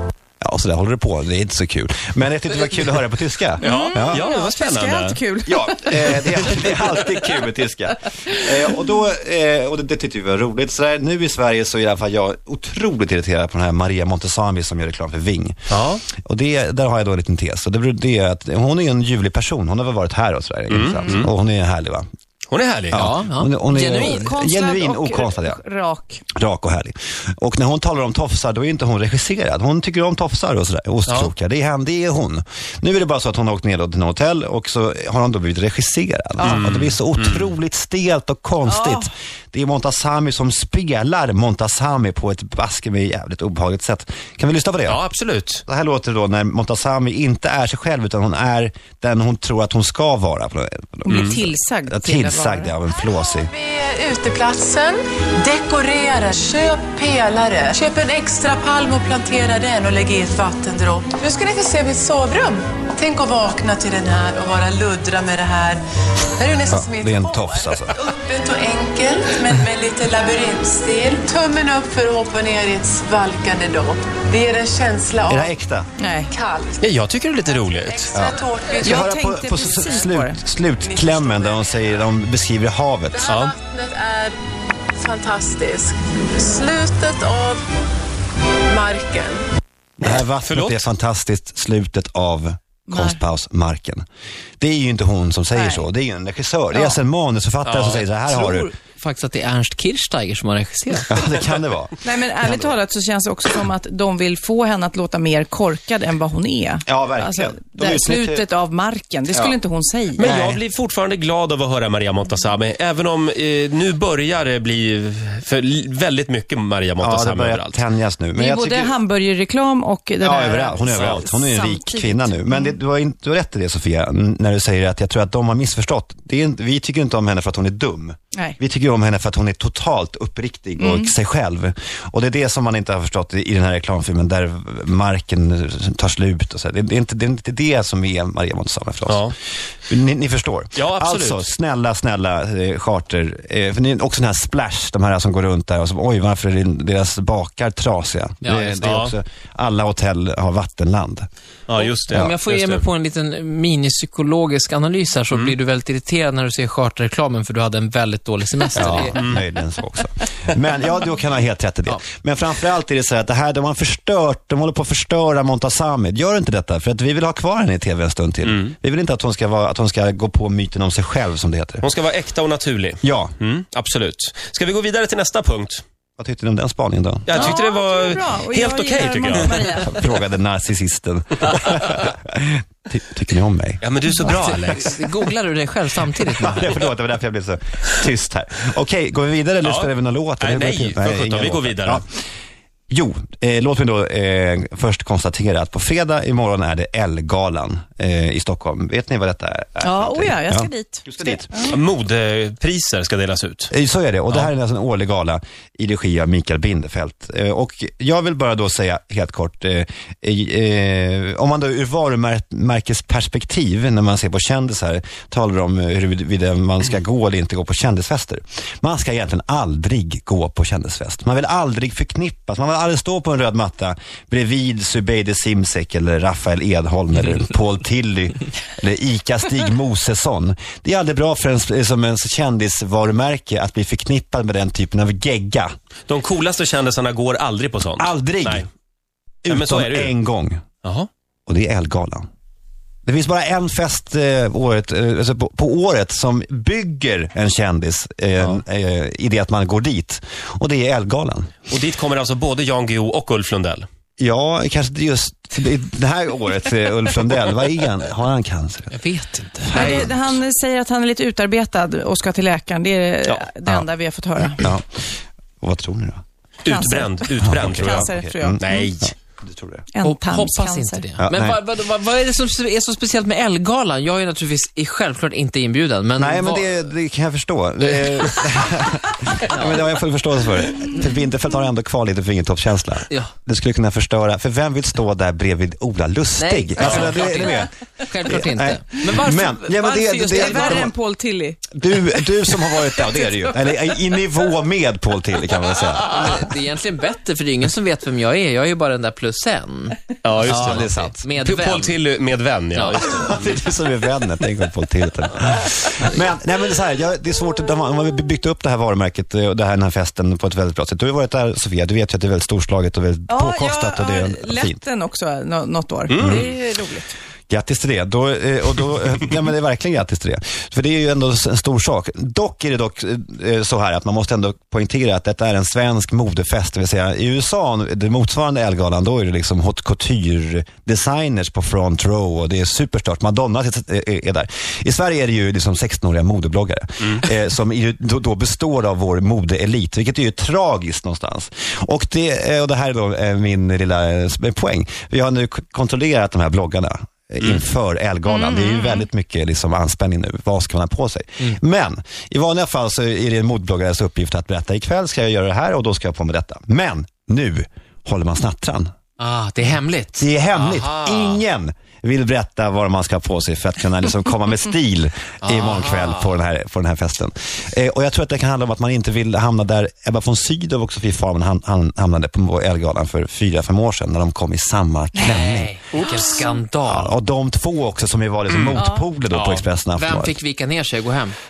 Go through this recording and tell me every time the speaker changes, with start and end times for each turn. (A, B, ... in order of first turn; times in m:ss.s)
0:00.4-0:04.2 A
0:03.6-0:06.4 B
0:03.6-0:05.2 C
0:05.5-0:15.6 A
0:15.7-0:16.0 C
0:16.2-0:22.1 A
0:20.7-0:21.3 C
0:22.5-0:23.0 C
0:22.9-0:25.6 A
0:22.9-0:24.3 D
0:23.9-0:26.2 B
0:26.3-0:45.0 A
0:31.1-0:31.3 C
0:36.4-0:37.5 C
0:38.7-0:39.1 B
0:44.9-0:45.6 C
0:45.7-0:53.5 A
0:51.0-0:52.7 B
0:51.1-0:51.4 C
0:53.0-1:05.8 E
1:06.3-1:15.6 E
1:06.7-1:08.0 A
1:15.3-1:15.9 A
1:16.0-1:16.3 B
1:16.2-1:19.3 E
1:16.8-1:18.3 C
1:18.1-1:23.2 A
1:18.8-1:20.4 B
1:20.8-1:22.0 E
1:23.1-1:24.4 E
1:23.3-1:23.6 C
1:25.0-1:27.6 E
1:28.7-1:29.4 E
1:30.0-1:34.0 A
1:30.1-1:30.8 C
1:32.9-1:33.2 B
1:34.6-1:38.7 A
1:35.5-1:35.9 B
1:36.7-1:37.0 B
1:37.6-1:38.0 C
1:38.3-1:41.1 D
1:41.1-1:42.8 A
1:42.0-1:50.4 B
1:46.9-1:48.4 A
1:50.2-1:57.8 C
1:50.2-1:50.6 A
1:57.0-1:59.0 A
1:58.4-2:02.8 B
2:00.2-2:19.3 A
2:00.9-2:01.2 C
2:10.8-2:11.1 B
2:19.1-2:19.3 C
2:19.9-2:31.3 A
2:20.8-2:21.5 C
2:28.4-2:28.8 D
2:28.8-2:29.1 C
2:31.7-2:32.8 C
2:32.1-2:39.2 D
2:38.8-2:51.9 A
2:39.2-2:39.4 C
2:48.4-2:48.7 C
2:51.8-2:55.8 C
2:53.0-2:53.3 A
2:56.2-2:57.5 A
2:57.3-2:59.8 C
2:57.3-3:00.0 B
2:59.5-3:03.8 A
3:03.8-3:05.0 C
3:04.1-3:06.7 D
3:06.4-3:12.1 A
3:09.6-3:12.0 C
3:12.9-3:21.5 A
3:19.8-3:21.8 B
3:21.7-3:23.7 C
3:23.7-3:55.7 A
3:56.1-3:58.6 C
3:58.0-3:58.7 A
3:59.4-4:00.6 A
3:59.5-4:00.1 C
4:01.5-4:02.3 A
4:03.1-4:11.6 A
4:11.7-4:13.9 C
4:14.2-4:19.0 A
4:18.9-4:20.0 D
4:19.7-4:24.7 B
4:19.8-4:20.1 A
4:19.8-4:20.1 C
4:24.6-4:25.0 A
4:25.6-4:26.2 A
4:26.6-4:29.1 C
4:26.7-4:28.9 B
4:27.4-4:29.8 A
4:29.9-4:31.0 B
4:30.0-4:36.7 D
4:31.2-4:31.6 A
4:36.2-4:47.7 A
4:39.5-4:39.9 D
4:46.4-4:49.5 D
4:46.8-4:47.3 C
4:48.2-4:50.9 A
4:49.1-4:51.8 B
4:50.3-4:50.9 D
4:51.7-4:56.4 A
4:52.5-4:53.6 B
4:56.1-5:02.0 D
5:00.2-5:00.8 C
5:00.4-5:01.3 A
5:01.4-5:03.4 C
5:02.7-5:03.3 D
5:03.0-5:14.8 A
5:13.3-5:17.2 B
5:16.1-5:16.5 C
5:16.2-5:16.5 A
5:17.5-5:58.9 A
5:48.3-5:49.0 B
5:59.2-6:00.3 D
6:00.2-6:15.8 A
6:00.6-6:01.4 C
6:05.4-6:06.3 D
6:15.2-6:17.2 D
6:15.9-6:16.5 C
6:16.8-6:20.4 A
6:18.5-6:18.8 C
6:18.7-6:19.1 B
6:19.3-6:19.6 C
6:20.0-6:21.4 D